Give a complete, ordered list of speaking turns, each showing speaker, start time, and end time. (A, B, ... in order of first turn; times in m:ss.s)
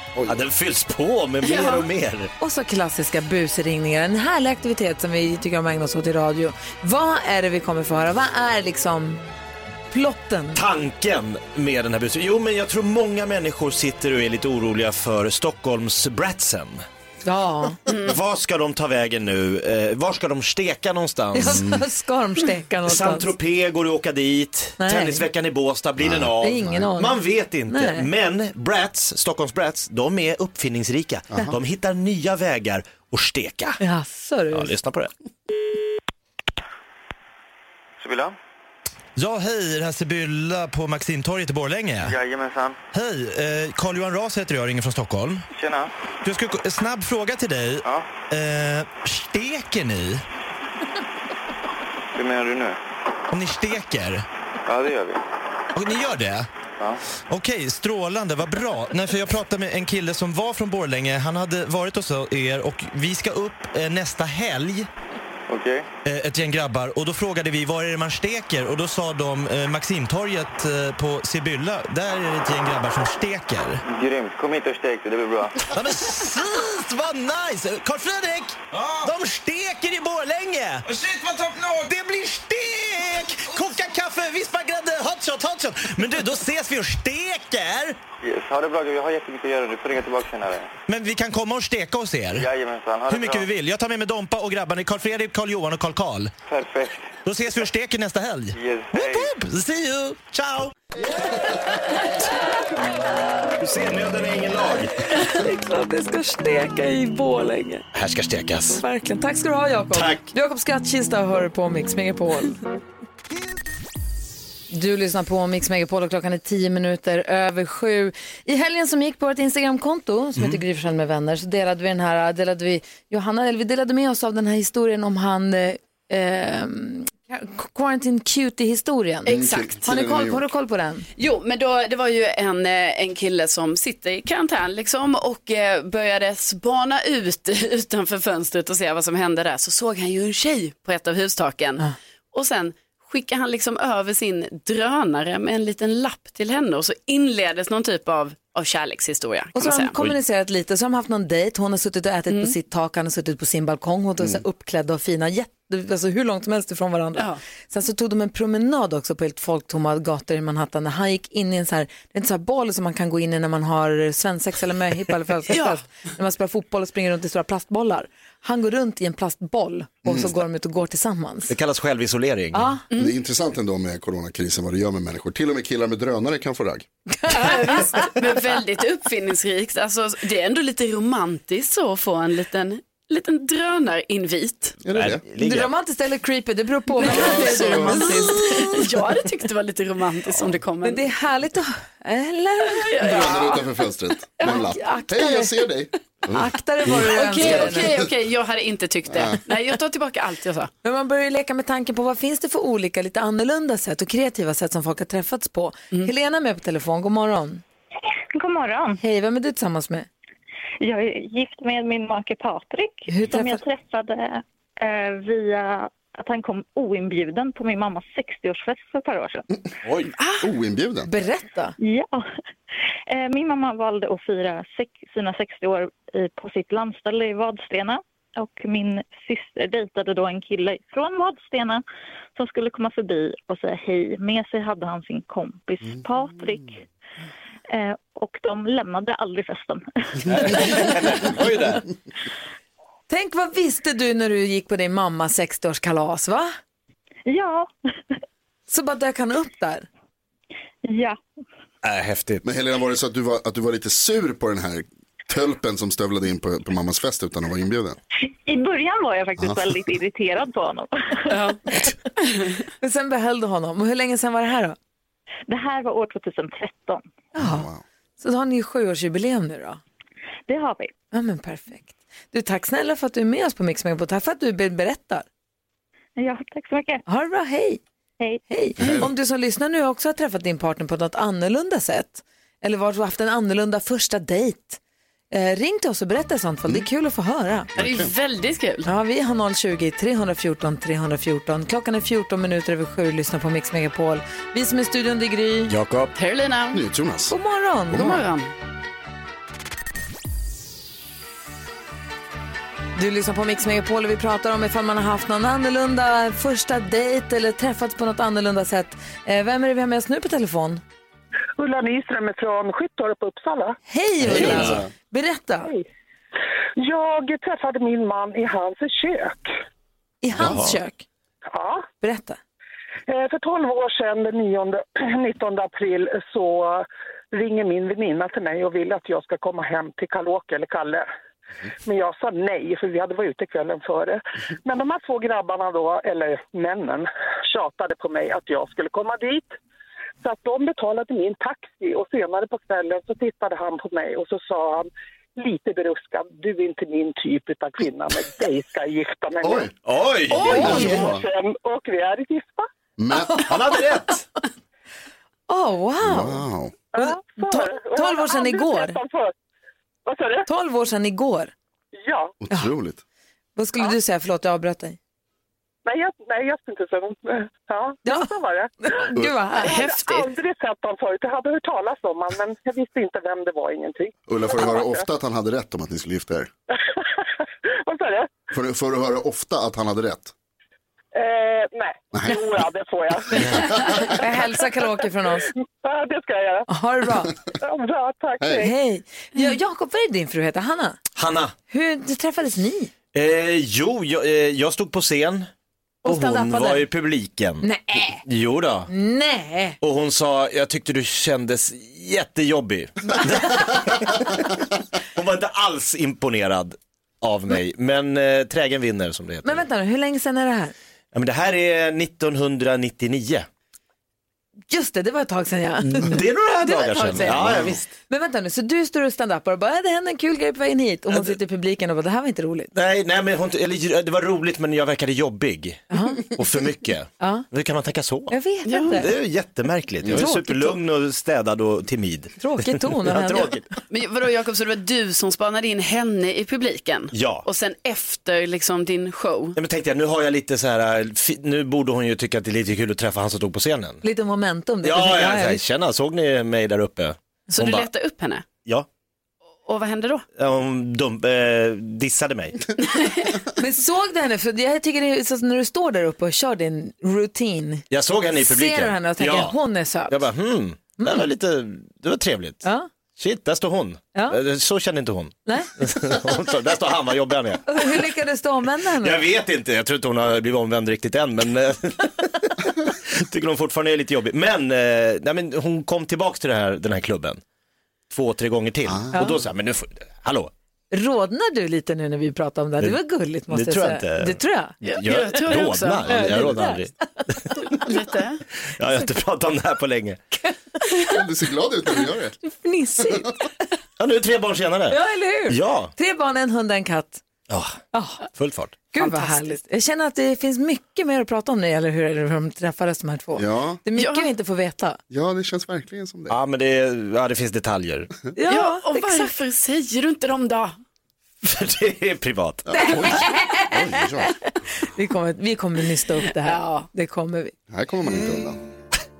0:00.3-0:02.3 A
0:01.4-0:01.8 B
0:02.4-0:09.2 C
0:09.9-0:10.6 C
0:10.5-0:16.8 A
0:17.2-0:17.8 C
0:17.9-0:18.2 B
0:18.1-0:21.8 A
0:21.3-0:23.3 C
0:21.5-0:21.8 D
0:22.8-0:33.8 A
0:24.8-0:25.3 C
0:26.0-0:26.9 D
0:26.4-0:28.1 C
0:31.3-0:31.6 D
0:33.8-0:34.7 C
0:34.5-0:35.1 A
0:38.0-0:38.4 E
0:39.2-0:42.1 F
0:42.0-0:42.8 E
0:42.9-0:45.5 F
0:45.5-0:45.9 E
0:46.2-0:50.2 F
0:47.8-0:48.1 E
0:52.2-0:52.8 E
0:53.3-0:54.2 F
0:54.7-0:55.2 E
0:55.7-0:56.5 F
0:57.3-1:04.9 F
1:05.5-1:05.9 E
1:06.0-1:13.8 F
1:13.9-1:15.6 E
1:15.7-1:28.0 F
1:28.2-1:30.7 E
1:30.9-1:32.5 F
1:32.4-1:33.5 E
1:33.1-1:36.3 F
1:36.5-1:37.1 E
1:37.2-1:40.7 F
1:38.5-1:39.3 E
1:43.6-1:44.9 A
1:45.1-1:47.9 C
1:47.9-1:48.8 A
1:48.7-1:52.6 C
1:49.9-1:50.2 A
1:54.7-2:11.1 C
2:09.3-2:09.8 B
2:09.3-2:10.4 D
2:11.2-2:29.9 B
2:29.6-2:51.5 C
2:32.3-2:32.6 B
2:45.5-2:45.8 B
2:50.0-2:50.3 D
2:51.5-2:52.8 A
2:52.5-2:52.8 C
2:53.0-2:56.9 D
2:57.2-2:58.1 C
2:57.3-3:04.8 B
3:04.8-3:05.2 D
3:04.9-3:05.7 A
3:05.4-3:08.7 C
3:07.0-3:08.1 D
3:07.0-3:11.0 B
3:10.8-3:13.5 C
3:12.7-3:13.6 B
3:13.0-3:18.1 D
3:14.4-3:15.6 C
3:16.3-3:18.0 C
3:17.1-3:20.7 B
3:19.1-3:19.4 D
3:20.8-3:27.6 C
3:28.3-3:29.0 G
3:29.0-3:30.1 C
3:30.8-3:39.5 G
3:33.1-3:33.6 C
3:39.8-3:40.1 A
3:40.2-3:40.5 B
3:40.4-3:41.1 D
3:41.1-3:41.8 C
3:41.8-3:42.3 G
3:43.1-3:51.8 G
3:52.4-3:56.8 G
3:57.7-4:00.9 G
4:00.3-4:01.8 A
4:03.1-4:06.6 C
4:07.3-4:07.7 G
4:08.7-4:09.9 C
4:10.9-4:11.2 G
4:11.8-4:12.4 A
4:12.4-4:18.0 D
4:18.2-4:21.5 G
4:21.3-4:21.6 B
4:22.8-4:24.8 C
4:25.5-4:27.0 G
4:27.4-4:29.8 C
4:27.4-4:27.8 D
4:30.5-4:30.9 G
4:31.1-4:35.3 C
4:36.2-4:37.0 G
4:37.1-4:37.8 C
4:38.5-4:44.8 C
4:38.8-4:39.1 D
4:45.3-4:47.7 C
4:47.8-4:48.1 D
4:47.8-4:48.9 B
4:48.8-4:55.7 C
4:55.7-4:56.1 A
4:56.2-4:56.8 B
4:56.7-4:57.3 D
4:57.3-4:58.2 C
4:57.9-4:58.2 D
4:57.9-4:58.5 B
5:03.0-5:10.8 C
5:11.6-5:13.8 H
5:13.9-5:15.7 C
5:14.2-5:14.9 A
5:14.3-5:14.8 D
5:16.8-5:19.5 H
5:20.2-5:21.1 C
5:20.4-5:20.8 A
5:21.5-5:21.9 H
5:22.0-5:22.4 C
5:23.1-5:31.1 H
5:31.9-5:39.6 H
5:40.2-5:49.7 H
5:49.4-5:49.7 D
5:49.8-5:51.1 A
5:50.3-5:51.2 D
5:50.4-5:52.7 H
5:50.5-5:51.0 C
5:53.0-5:53.6 D
5:53.4-5:54.2 A
5:55.5-5:59.0 C
5:56.0-5:56.8 D
5:56.9-5:59.3 H
6:00.1-6:00.5 H
6:00.5-6:01.5 C
6:02.0-6:02.4 H
6:02.4-6:03.0 D
6:03.6-6:05.0 C
6:05.9-6:09.1 H
6:08.0-6:08.3 C
6:08.8-6:09.8 C
6:09.6-6:10.3 B
6:09.6-6:15.0 H
6:14.3-6:16.5 D
6:16.9-6:18.3 H
6:18.5-6:20.3 D
6:21.1-6:24.6 H
6:22.1-6:22.5 D
6:23.4-6:23.7 D
6:23.9-6:25.5 C
6:25.7-6:26.7 H
6:26.7-6:27.3 C
6:27.6-6:28.7 H
6:28.6-6:31.0 C
6:31.2-6:31.6 A
6:31.7-6:32.9 C
6:33.1-6:35.5 A
6:36.0-6:36.9 C
6:36.0-6:37.7 A
6:37.6-6:38.2 C
6:38.2-6:38.9 A
6:38.9-6:39.8 C
6:39.8-6:44.5 A
6:45.1-6:49.6 A
6:49.4-6:50.7 C
6:51.1-6:53.5 A
6:54.7-7:02.7 C
6:55.8-6:57.8 A
6:57.3-6:57.8 D
7:02.7-7:13.7 A
7:05.9-7:06.3 C
7:07.2-7:07.5 C
7:08.3-7:09.1 C
7:08.7-7:09.0 B
7:10.1-7:10.8 C
7:12.4-7:13.6 C
7:13.9-7:19.6 B
7:17.1-7:17.5 A
7:19.6-7:24.0 A
7:24.0-7:25.6 C
7:24.8-7:27.9 A
7:27.5-7:28.5 B
7:29.7-7:30.2 B
7:30.4-7:32.7 A
7:32.8-7:33.4 B
7:33.6-7:37.8 C
7:37.9-7:39.6 A
7:38.4-7:40.2 C
7:40.1-7:42.6 A
7:41.0-7:41.2 C
7:42.6-7:42.9 C
7:43.2-7:47.7 A
7:45.5-7:45.7 C
7:47.7-7:49.2 C
7:49.0-7:57.4 A
7:58.1-8:00.5 A
7:58.9-7:59.4 D
8:00.9-8:04.8 C
8:02.8-8:07.6 A
8:04.8-8:06.4 B
8:06.1-8:07.2 C
8:07.7-8:08.4 B
8:08.7-8:10.2 A
8:11.0-8:12.4 D
8:12.4-8:13.5 C
8:14.0-8:15.9 A
8:14.9-8:17.2 C
8:17.5-8:17.8 A
8:17.9-8:18.2 C
8:18.3-8:18.8 A
8:18.9-8:25.0 C
8:19.0-8:19.5 B
8:23.4-8:23.8 D
8:24.0-8:24.3 B
8:25.1-8:26.4 D
8:26.3-8:28.1 A
8:28.3-8:29.3 C
8:28.5-8:30.8 B
8:31.4-8:32.9 A
8:32.7-8:34.3 D
8:32.7-8:33.8 C
8:34.8-8:37.5 C
8:36.4-8:36.9 B
8:37.7-8:38.6 D